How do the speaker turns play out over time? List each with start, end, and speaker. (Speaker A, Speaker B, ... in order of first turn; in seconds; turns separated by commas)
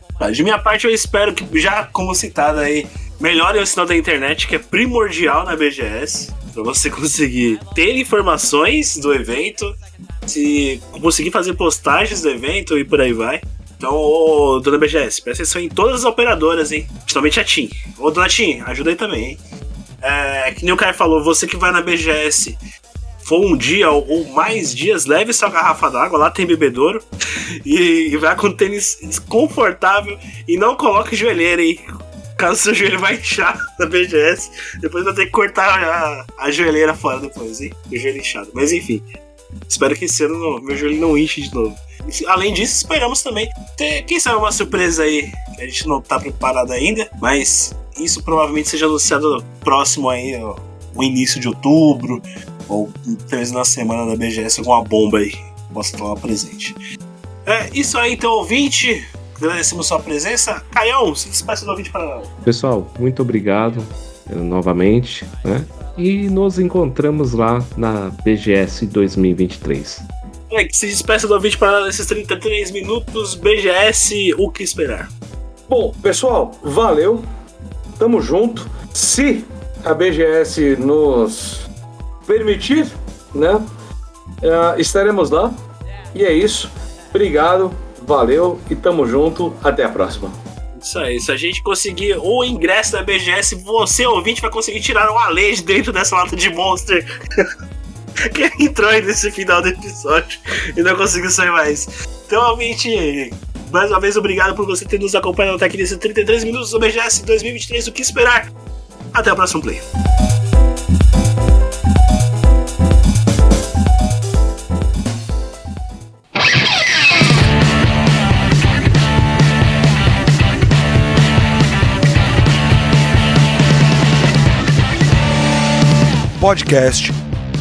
Speaker A: 0.2-19.4, Speaker A: 20.0-22.6, Speaker A: 23.2-27.1, Speaker A: 27.6-39.0, Speaker A: 39.7-56.8, Speaker A: 57.5-62.3, Speaker B: 62.4-70.0, Speaker A: 70.5-75.1, Speaker C: 75.7-77.2, Speaker C: 78.0-81.6, Speaker C: 82.3-83.6, Speaker C: 84.4-85.5, Speaker C: 86.1-90.3, Speaker A: 90.7-97.5, Speaker A: 98.2-108.5, Speaker A: 109.1-109.9, Speaker C: 126.4-127.2